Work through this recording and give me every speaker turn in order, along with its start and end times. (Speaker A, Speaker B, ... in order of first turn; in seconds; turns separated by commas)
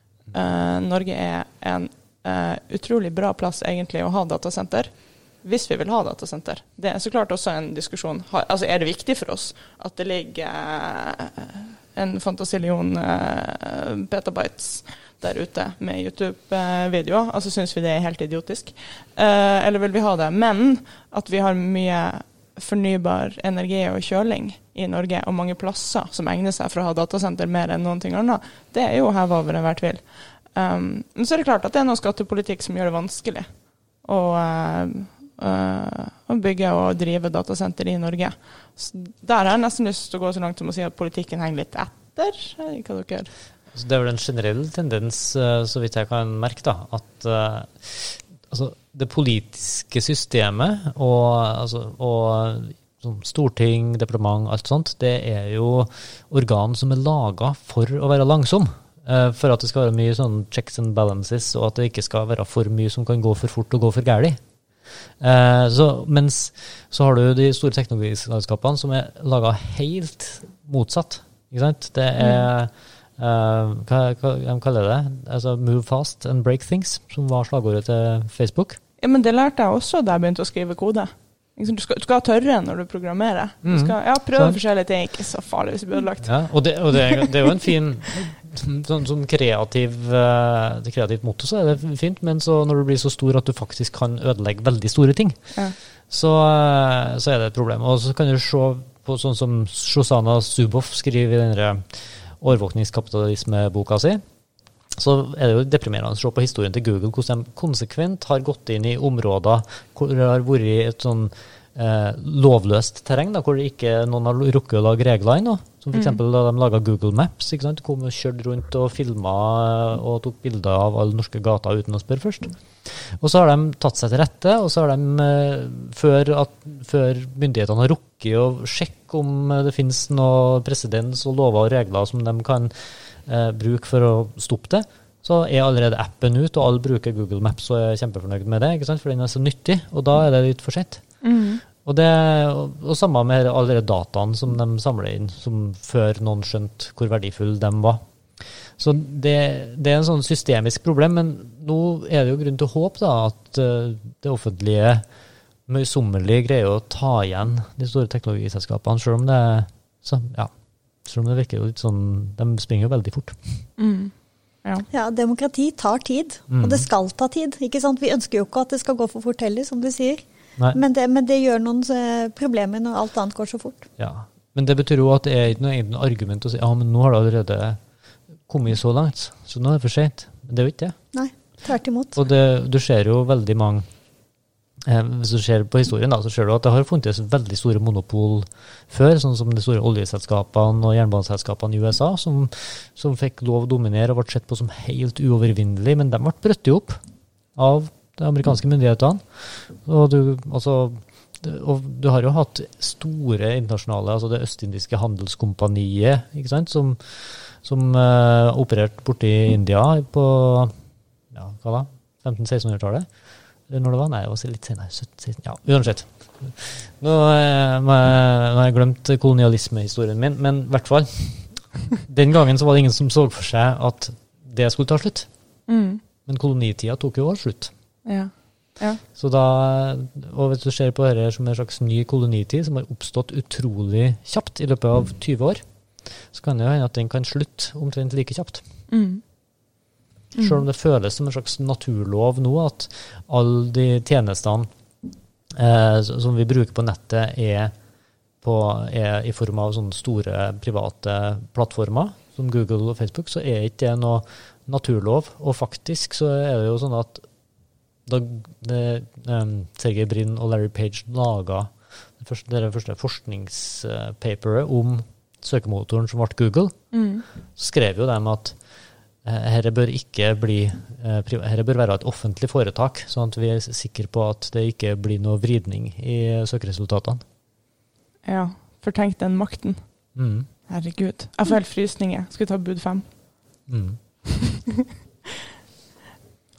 Speaker A: 0.3-43.3, Speaker B: 43.7-64.4, Speaker B: 65.2-78.8, Speaker A: 72.2-72.4, Speaker A: 79.0-86.3, Speaker B: 83.6-84.6, Speaker B: 86.2-104.2, Speaker B: 105.0-141.0, Speaker A: 115.9-116.2, Speaker A: 141.2-141.6, Speaker B: 141.8-155.0, Speaker B: 155.7-160.5, Speaker B: 161.0-163.6, Speaker A: 163.8-164.1, Speaker C: 164.9-173.8, Speaker B: 166.5-166.9, Speaker B: 174.0-177.8, Speaker B: 178.5-180.9, Speaker C: 181.1-182.2, Speaker B: 182.1-183.9, Speaker B: 184.8-197.0, Speaker B: 197.6-210.7, Speaker B: 211.3-213.1, Speaker B: 213.7-225.3, Speaker A: 225.7-226.0, Speaker B: 226.2-227.7, Speaker A: 228.0-229.0, Speaker B: 229.2-235.6, Speaker B: 236.2-238.6, Speaker A: 238.9-239.2, Speaker A: 240.3-240.6, Speaker B: 240.4-244.7, Speaker B: 245.5-247.7, Speaker B: 248.4-257.2, Speaker B: 258.1-266.9, Speaker A: 266.9-267.2, Speaker B: 267.6-268.6, Speaker B: 269.2-277.2, Speaker A: 278.2-279.8, Speaker B: 280.1-280.5, Speaker A: 280.7-283.1, Speaker B: 283.7-284.0